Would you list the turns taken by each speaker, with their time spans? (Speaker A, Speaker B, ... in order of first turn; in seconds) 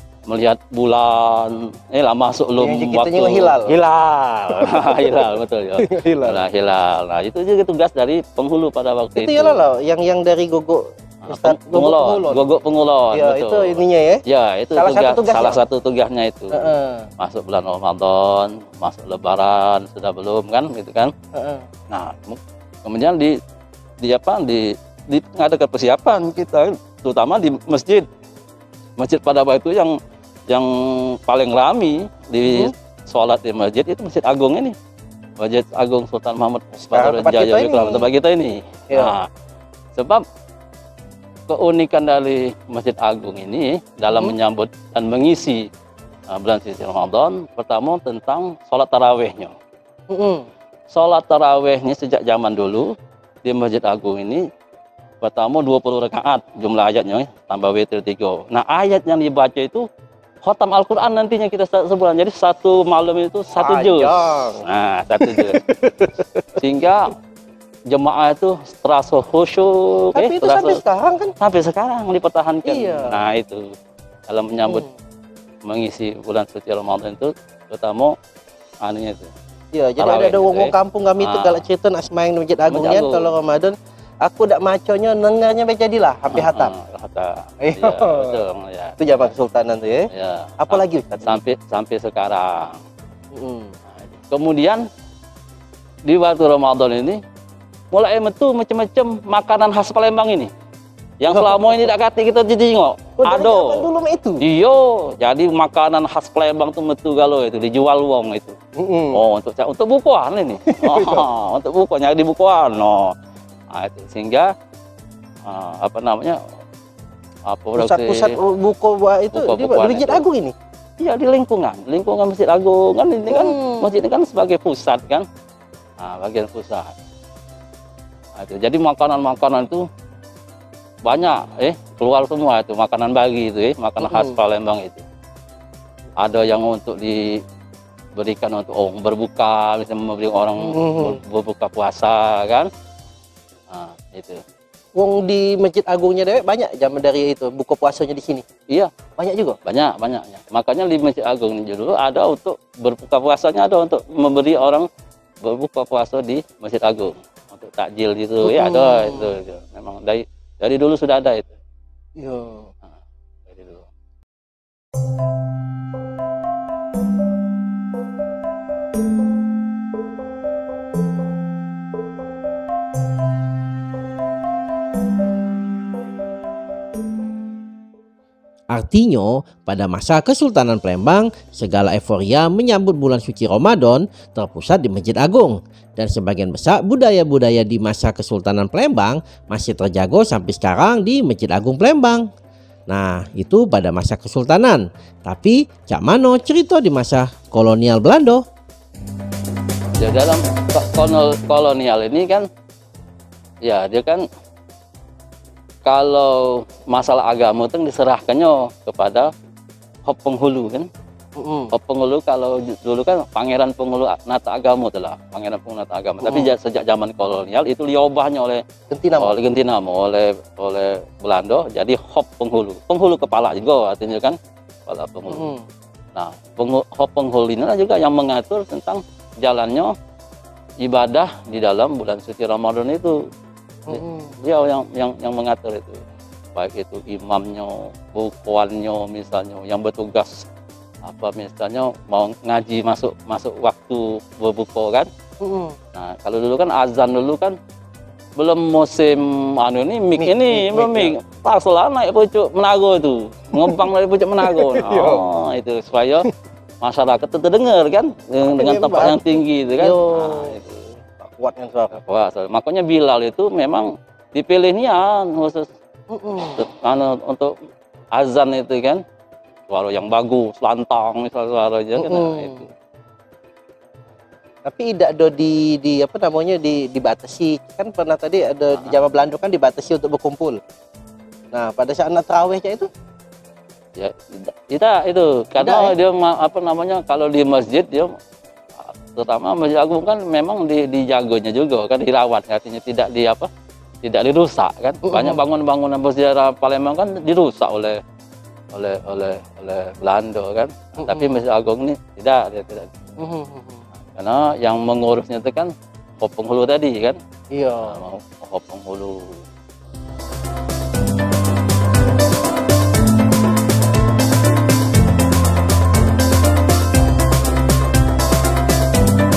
Speaker A: 0.3-9.7, 11.2-21.1, 21.9-23.4, 24.0-28.1, 29.0-30.0, 30.5-34.8, 35.4-39.3, 40.0-40.2, 41.5-45.6, 46.3-49.5, 50.9-52.9, 53.4-54.5, 55.2-59.9, 60.4-65.6, 66.6-67.2, 67.9-70.8, 71.4-73.7, 74.3-74.8, 75.7-78.2, 78.8-79.3, 80.0-81.7, 82.7-83.3, 86.3-89.3, 90.1-92.8, 94.0-94.8, 96.0-97.2, 97.9-100.5, 101.2-103.9, 104.4-108.5, 109.1-113.1, 113.7-114.5, 115.5-116.4, 117.5-118.3, 119.3-120.2, 121.0-125.2, 126.0-126.9, 128.4-129.9, 131.1-135.0, 136.2-137.4, 138.2-142.7, 143.7-144.4, 149.7-154.9, 155.4-161.5, 163.5-163.9, 200.0-202.5, 203.6-204.2, 205.8-209.3, 210.1-210.9, 211.7-218.6, 219.2-225.5, 226.2-229.9, 230.8-233.2, 233.9-236.0, 236.6-240.5, 241.1-245.1, 245.9-247.6, 248.4-256.3, 256.8-260.9, 261.9-265.7, 266.4-267.5, 268.1-269.0, 269.7-272.7, 284.0-288.1, 289.1-293.5, 294.0-298.0, 298.7-302.9, 304.1-307.2, 307.8-309.4
Speaker B: 2.6-3.8, 4.5-5.2, 5.8-6.4, 9.2-12.5, 13.1-14.2, 14.7-15.6, 16.5-17.1, 21.4-21.6, 32.5-32.7, 36.8-38.1, 38.9-39.2, 44.1-44.4, 50.1-50.5, 63.6-64.6, 65.2-66.5, 70.2-71.3, 72.6-73.2, 74.7-74.9, 79.7-86.7, 87.6-88.4, 89.0-91.4, 93.3-93.7, 101.3-101.9, 103.2-104.5, 108.8-109.2, 110.7-111.3, 117.8-120.5, 123.3-124.0, 134.0-134.4, 140.6-141.2, 144.9-148.4, 149.2-149.6, 158.4-159.3, 162.2-162.7, 211.4-211.7, 216.2-216.5, 218.9-219.3, 225.3-225.6, 233.9-234.3, 245.4-245.8, 250.2-251.2, 253.6-253.9, 254.4-255.2, 258.5-260.6, 261.2-262.0, 266.1-266.6, 272.0-272.7, 274.6-280.6, 281.5-282.9, 285.6-286.0, 295.0-295.4, 301.0-301.4, 303.2-303.8, 307.5-308.0
Speaker C: 178.7-192.3, 192.9-198.4